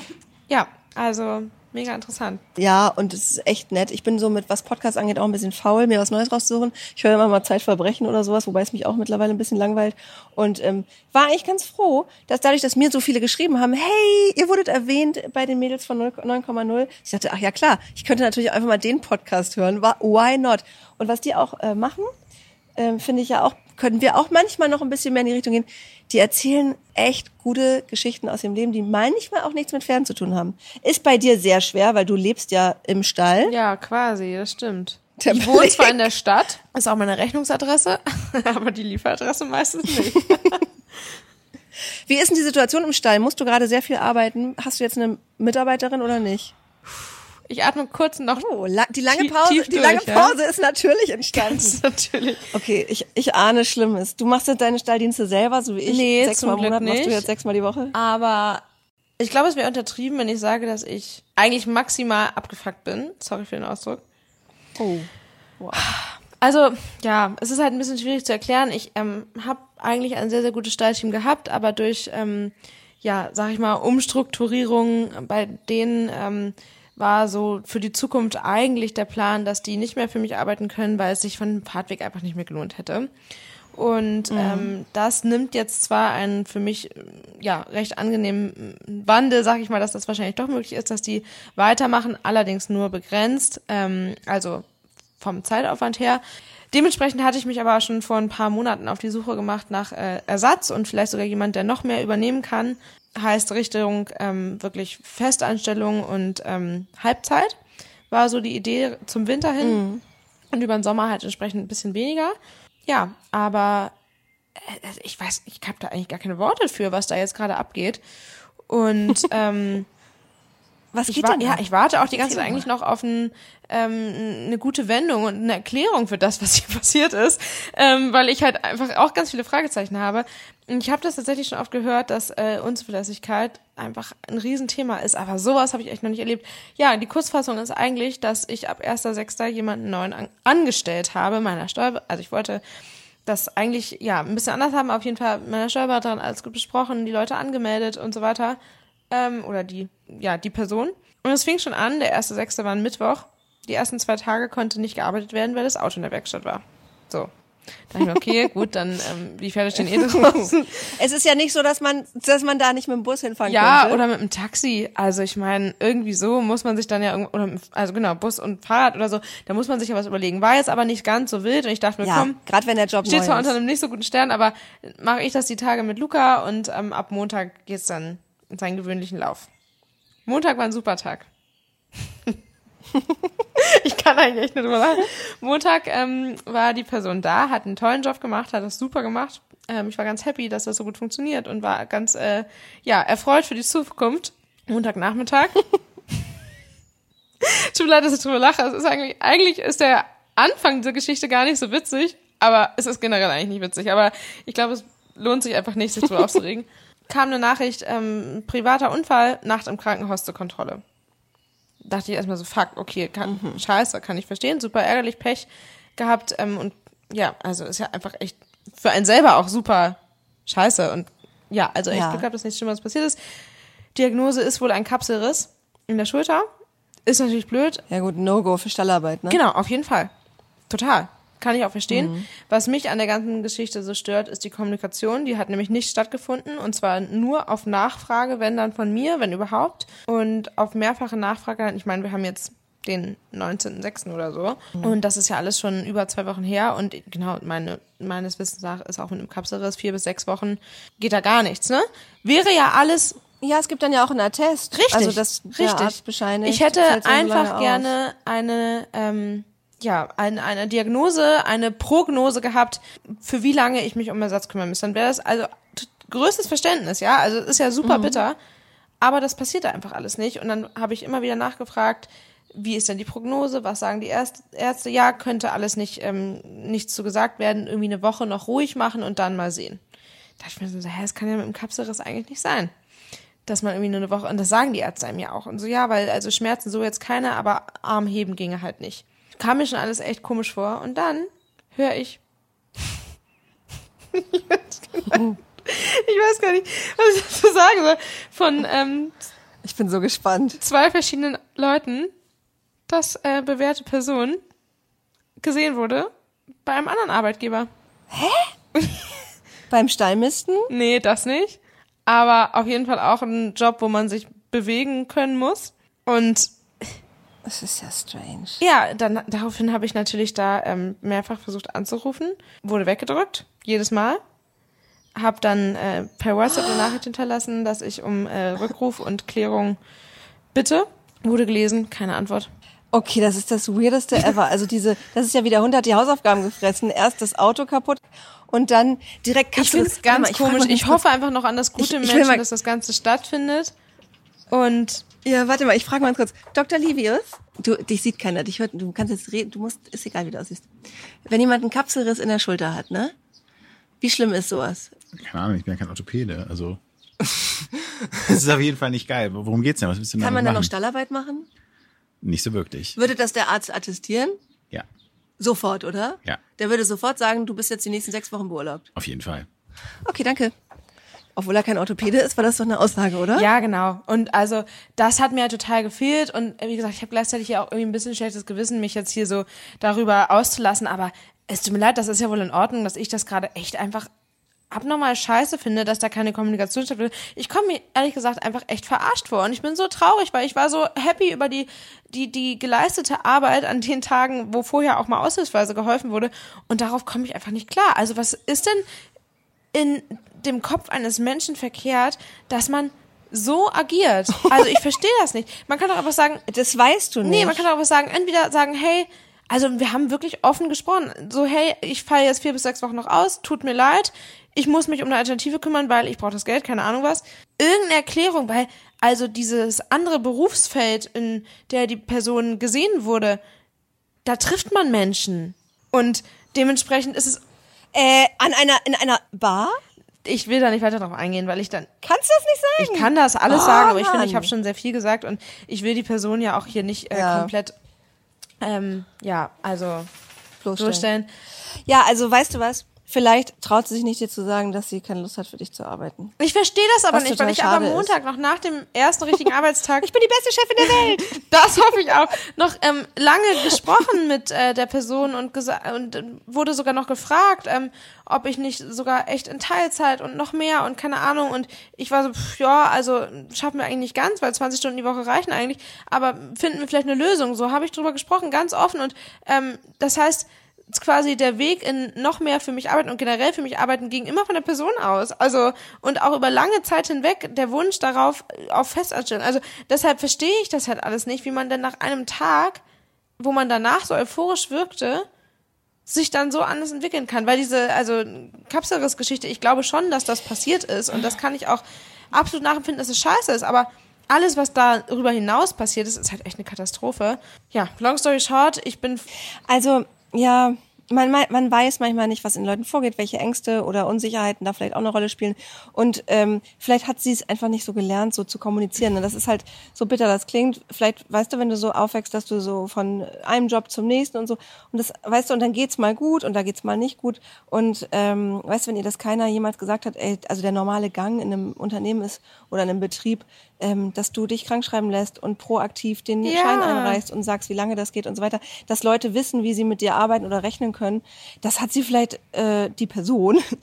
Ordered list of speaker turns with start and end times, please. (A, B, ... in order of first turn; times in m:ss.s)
0:00.5-0:02.4 A
0:02.6-0:22.1 B
0:22.8-0:33.5 B
0:33.4-0:40.7 A
0:35.2-0:36.0 B
0:42.1-0:46.6 B
0:47.5-0:48.5 A
0:48.4-0:51.8 B
0:49.1-0:50.4 A
0:51.3-0:52.5 A
0:52.5-0:58.0 B
0:55.9-0:57.3 A
0:57.9-0:58.6 A
0:59.2-1:04.0 A
1:04.8-1:05.8 B
1:05.8-1:23.1 A
1:23.7-1:34.7 A
1:24.3-1:24.8 B
1:35.2-1:47.6 A
1:48.1-1:49.8 A
1:49.6-1:50.0 B
1:50.5-1:53.9 A
1:54.6-1:58.0 A
1:58.7-1:59.9 A
2:00.9-2:02.7 B
2:01.1-2:22.6 A
2:23.3-2:28.6 A
2:29.1-2:37.3 A
2:37.9-2:41.0 A
2:39.8-2:44.0 B
2:43.4-2:52.4 A
2:52.0-2:53.6 B
2:53.0-2:59.5 A
3:00.3-3:01.3 A
3:03.6-3:15.6 A
3:17.4-3:30.8 A
3:31.8-3:43.2 A
3:33.2-3:33.6 B
3:41.9-3:42.3 B
3:43.9-3:46.5 A
3:47.1-3:47.8 A
3:47.9-3:49.4 B
3:49.3-3:50.1 A
3:50.7-4:13.2 A
3:51.9-3:52.3 B
4:13.4-4:17.9 B
4:14.7-4:28.4 A
4:27.8-4:28.2 B
4:29.0-4:39.8 A
4:40.4-4:42.7 A
4:43.5-4:52.2 A
4:54.1-4:59.2 A
4:59.6-5:00.6 B
5:00.6-5:02.1 A
5:02.9-5:04.4 A
5:05.4-5:06.1 A
5:06.6-5:07.7 A
5:08.1-5:08.5 B
5:09.7-5:10.7 B
5:10.7-5:16.8 A
5:17.4-5:18.6 B
5:18.6-5:24.2 A
5:25.2-5:29.8 A
5:26.5-5:26.9 B
5:30.5-5:32.5 A
5:32.9-5:41.0 B
5:39.6-5:43.7 A
5:41.8-5:42.4 B
5:44.5-5:45.0 A
5:45.2-5:50.7 B
5:51.3-5:53.1 B
5:54.0-5:54.9 B
5:55.2-6:00.7 C
6:00.2-6:01.5 B
6:02.2-6:03.0 C
6:03.0-6:04.4 B
6:05.4-6:08.9 B
6:09.0-6:09.5 C
6:10.0-6:10.5 B
6:11.4-6:13.5 B
6:13.4-6:24.1 A
6:24.7-6:38.8 A
6:39.7-6:46.4 A
6:46.5-6:47.7 B
6:47.2-7:03.4 A
7:04.2-7:07.4 A
7:07.9-7:09.8 B
7:10.2-7:11.9 A
7:12.0-7:14.5 B
7:12.8-7:17.8 A
7:17.1-7:17.5 B
7:18.6-7:20.1 A
7:20.6-7:21.0 B
7:20.8-7:21.3 A
7:21.9-7:26.3 B
7:26.4-7:30.1 A
7:27.1-7:28.1 B
7:30.0-7:31.4 B
7:30.9-8:02.8 A
8:03.4-8:05.3 A
8:06.1-8:19.3 A
8:19.7-8:53.6 B
8:46.4-8:47.2 A